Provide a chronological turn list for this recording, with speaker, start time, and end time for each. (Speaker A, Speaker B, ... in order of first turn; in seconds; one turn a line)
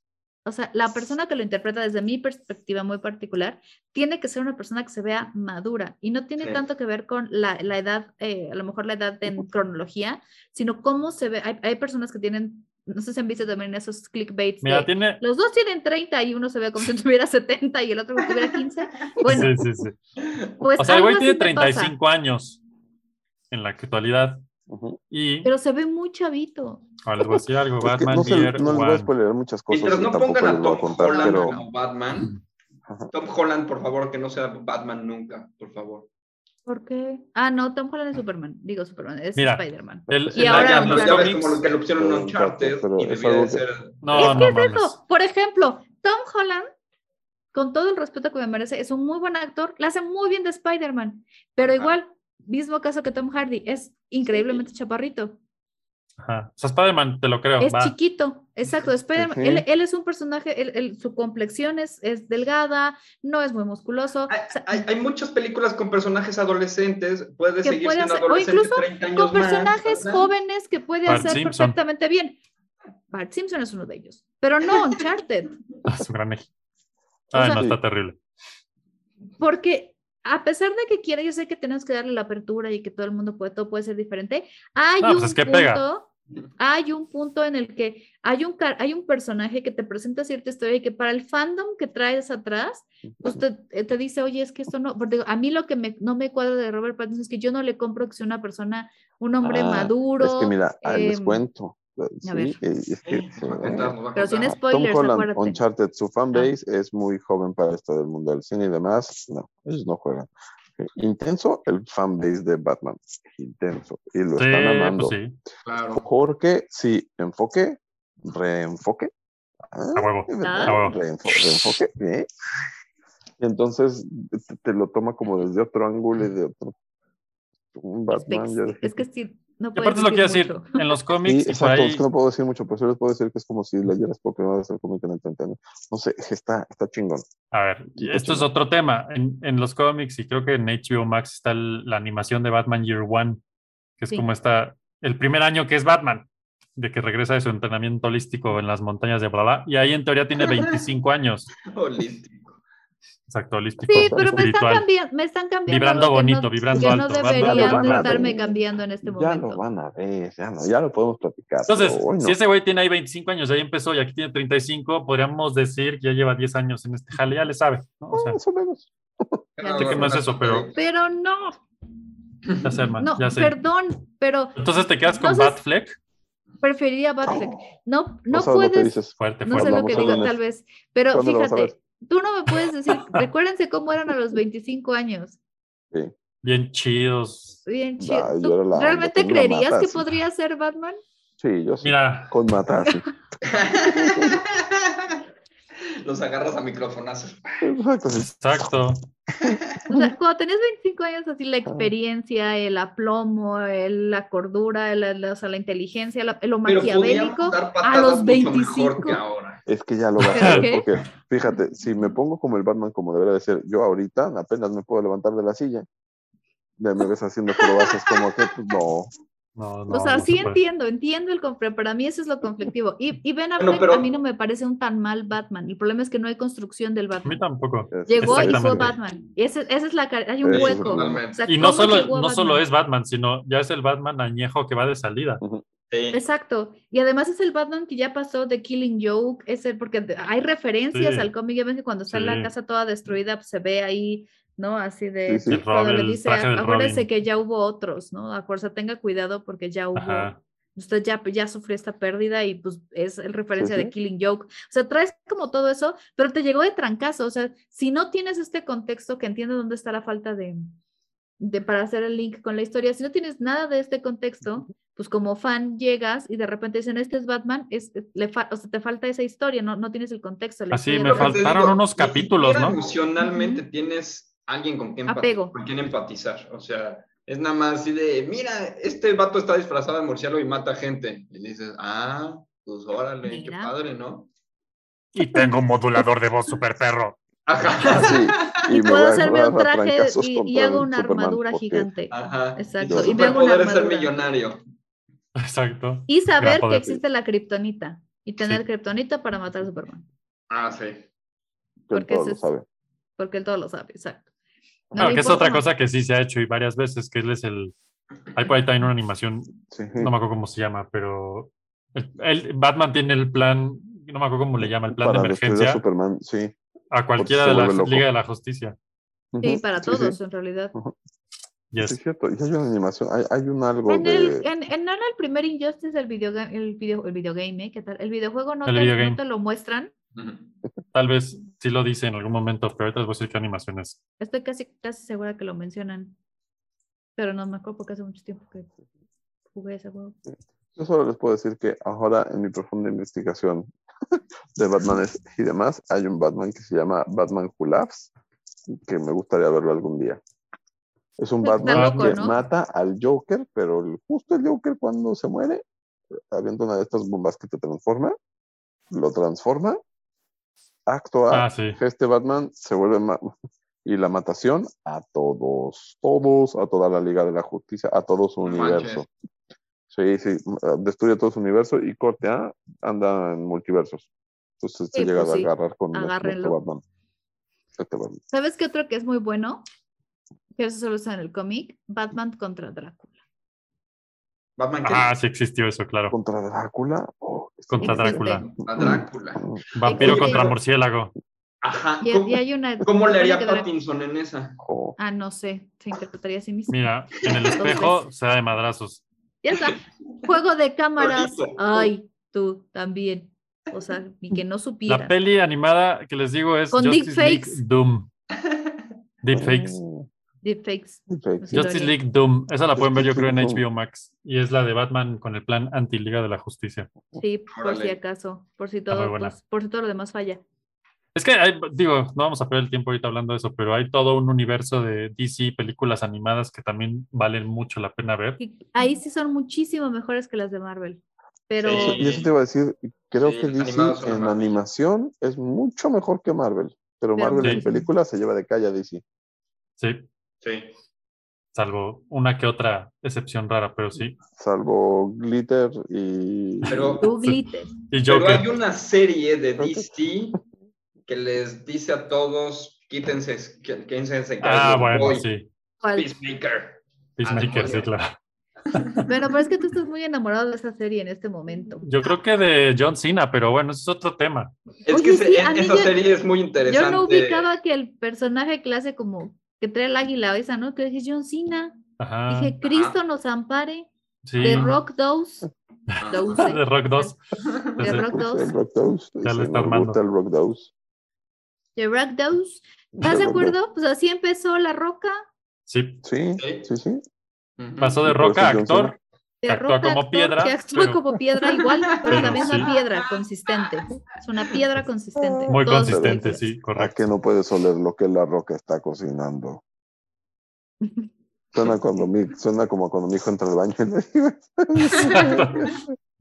Speaker A: 0.5-19.5
Speaker B: 14.6-15.2
Speaker B: 19.2-19.9
Speaker A: 20.6-21.9
Speaker B: 20.8-22.6
Speaker B: 23.5-24.4
Speaker C: 24.7-25.0
Speaker B: 25.1-25.5
Speaker A: 25.4-26.8
Speaker B: 27.1-29.1
Speaker C: 27.2-31.6
Speaker D: 29.7-32.4
Speaker A: 31.1-31.6
Speaker D: 33.1-36.1
Speaker A: 36.7-41.3
Speaker B: 39.4-41.6
Speaker D: 40.4-44.3
Speaker C: 41.9-43.6
Speaker B: 44.0-45.0
Speaker A: 44.1-46.7
Speaker A: 47.5-55.4
Speaker D: 51.6-51.9
Speaker D: 54.3-54.6
Speaker B: 56.2-58.0
Speaker A: 57.6-64.8
Speaker C: 59.2-59.7
Speaker D: 64.3-70.3
Speaker A: 67.6-72.4
Speaker B: 71.1-71.8
Speaker A: 73.1-75.6
Speaker B: 75.8-76.5
Speaker A: 77.3-77.6
Speaker B: 77.3-78.2
Speaker C: 77.5-77.8
Speaker A: 79.4-86.1
Speaker B: 85.0-85.8
Speaker A: 86.6-101.4
Speaker C: 99.4-104.0
Speaker A: 102.2-102.6
Speaker D: 103.0-104.6
Speaker A: 104.2-105.6
Speaker C: 104.6-115.2
Speaker B: 114.4-115.3
Speaker D: 115.7-116.0
Speaker C: 116.0-119.1
Speaker C: 119.7-122.3
Speaker B: 120.0-121.0
Speaker A: 120.4-120.8
Speaker C: 123.4-126.8
Speaker C: 127.7-129.1
Speaker A: 128.1-130.8
Speaker B: 129.8-132.0
Speaker C: 131.2-137.2
Speaker B: 137.5-143.4
Speaker C: 138.0-138.5
Speaker B: 144.0-151.5
Speaker D: 151.7-152.6
Speaker B: 153.3-154.9
Speaker A: 153.9-159.6
Speaker C: 153.9-154.5
Speaker B: 155.7-158.3
Speaker C: 156.7-162.4
Speaker B: 161.7-168.4
Speaker C: 168.1-169.4
Speaker D: 169.6-170.8
Speaker A: 169.6-170.2
Speaker B: 169.8-170.7
Speaker A: 170.7-171.6
Speaker B: 172.6-173.6
Speaker A: 173.0-175.6
Speaker B: 174.6-176.0
Speaker A: 176.6-185.4
Speaker C: 177.3-177.5
Speaker C: 178.3-180.4
Speaker B: 179.2-180.2
Speaker C: 181.1-181.8
Speaker B: 186.4-187.6
Speaker A: 187.7-191.0
Speaker C: 188.0-190.1
Speaker C: 191.4-193.1
Speaker B: 191.8-192.3
Speaker D: 193.5-195.2
Speaker C: 193.9-194.4
Speaker D: 196.0-197.7
Speaker C: 197.6-198.7
Speaker B: 198.4-199.0
Speaker C: 199.4-200.1
Speaker A: 199.9-209.2
Speaker C: 201.7-201.9
Speaker D: 206.7-209.6
Speaker C: 209.7-215.9
Speaker B: 210.2-210.6
Speaker A: 210.3-210.8
Speaker C: 216.8-219.1
Speaker B: 219.6-220.6
Speaker A: 219.9-227.4
Speaker D: 223.6-224.1
Speaker B: 227.2-228.9
Speaker C: 227.9-228.9
Speaker A: 228.1-232.6
Speaker C: 230.4-231.2
Speaker D: 230.5-232.0
Speaker B: 231.5-235.4
Speaker D: 235.9-236.2
Speaker A: 236.1-260.7
Speaker B: 240.9-241.3
Speaker B: 242.1-242.5
Speaker C: 245.3-245.6
Speaker B: 245.5-247.1
Speaker B: 249.9-250.4
Speaker C: 253.6-253.9
Speaker A: 261.4-271.4
Speaker B: 270.7-272.8
Speaker D: 271.1-284.3
Speaker A: 273.2-273.6
Speaker A: 275.1-275.5
Speaker A: 283.2-283.7
Speaker B: 285.2-287.1
Speaker D: 287.5-288.5
Speaker C: 287.9-291.9
Speaker A: 288.7-294.2
Speaker D: 292.1-294.6
Speaker C: 292.9-293.3
Speaker B: 295.4-297.0
Speaker A: 296.1-300.1
Speaker D: 300.5-301.1
Speaker C: 301.9-302.6
Speaker A: 301.9-302.5
Speaker A: 303.2-304.2
Speaker C: 304.9-305.3
Speaker A: 304.9-305.6
Speaker B: 305.0-307.7
Speaker B: 308.4-315.8
Speaker C: 309.7-310.1
Speaker C: 314.6-316.5
Speaker B: 316.9-318.8
Speaker C: 317.2-318.1
Speaker C: 319.3-320.2
Speaker A: 319.4-320.7
Speaker C: 321.8-324.5
Speaker A: 323.9-329.9
Speaker B: 328.7-329.2
Speaker D: 330.2-330.5
Speaker B: 330.9-334.0
Speaker A: 334.2-336.1
Speaker A: 337.2-338.7
Speaker A: 339.5-340.2
Speaker C: 340.8-343.7
Speaker C: 344.6-348.1
Speaker C: 348.7-350.2
Speaker C: 351.2-355.6
Speaker A: 351.4-352.4
Speaker B: 351.6-352.3
Speaker C: 356.3-358.2
Speaker C: 358.9-359.8
Speaker C: 360.9-363.3
Speaker B: 361.3-361.8
Speaker C: 363.9-369.1
Speaker D: 368.4-369.0
Speaker C: 369.9-374.1
Speaker C: 374.6-376.8
Speaker A: 374.9-376.6
Speaker C: 377.8-378.2
Speaker A: 378.3-379.6
Speaker A: 380.6-383.1
Speaker D: 384.6-385.1
Speaker B: 384.8-386.1
Speaker C: 386.1-390.5
Speaker B: 387.7-388.5
Speaker A: 387.8-388.4
Speaker D: 388.5-390.5
Speaker B: 389.8-391.1
Speaker A: 389.8-390.5
Speaker D: 391.6-394.6
Speaker A: 392.0-393.7
Speaker C: 394.6-395.0
Speaker A: 395.0-396.8
Speaker B: 396.7-399.0
Speaker A: 397.6-398.0
Speaker A: 399.4-405.1
Speaker D: 401.0-401.6
Speaker B: 404.9-408.1
Speaker A: 406.7-407.6
Speaker B: 409.2-409.8
Speaker C: 409.3-410.1
Speaker A: 410.4-411.9
Speaker C: 411.1-411.7
Speaker B: 411.5-416.9
Speaker C: 412.8-413.6
Speaker A: 417.2-420.4
Speaker D: 417.5-418.0
Speaker B: 418.9-419.4
Speaker B: 421.1-428.4
Speaker A: 428.4-432.0
Speaker D: 431.6-432.3
Speaker C: 431.7-439.0
Speaker D: 433.2-434.6
Speaker A: 437.2-437.8
Speaker B: 439.8-440.1
Speaker D: 440.4-440.7
Speaker B: 441.5-444.1
Speaker C: 444.4-447.0
Speaker B: 446.6-448.4
Speaker D: 446.7-447.1
Speaker A: 447.0-447.7
Speaker D: 448.1-450.4
Speaker C: 449.6-449.9
Speaker D: 451.1-455.3
Speaker B: 454.4-455.5
Speaker A: 455.8-456.1
Speaker D: 455.9-457.9
Speaker B: 457.2-458.1
Speaker A: 459.1-461.9
Speaker B: 461.8-464.5
Speaker D: 464.9-467.5
Speaker A: 464.9-466.0
Speaker A: 466.7-473.9
Speaker B: 472.0-472.6
Speaker D: 472.6-473.0
Speaker B: 474.2-474.8
Speaker A: 474.4-475.5
Speaker B: 475.9-477.2
Speaker D: 476.0-476.5
Speaker A: 476.1-477.1
Speaker B: 477.8-478.0
Speaker A: 477.8-478.5
Speaker C: 477.8-480.7
Speaker B: 479.2-480.0
Speaker A: 481.8-485.2
Speaker C: 482.9-483.6
Speaker B: 485.7-486.0
Speaker C: 486.0-487.0
Speaker D: 486.4-486.7
Speaker D: 487.6-488.1
Speaker B: 487.8-488.9
Speaker C: 488.0-489.0
Speaker A: 489.4-496.5
Speaker B: 489.5-491.1
Speaker D: 492.0-492.9
Speaker B: 492.1-492.7
Speaker C: 495.2-499.6
Speaker B: 495.5-497.1
Speaker A: 500.8-501.1
Speaker C: 501.5-505.8
Speaker B: 504.9-505.7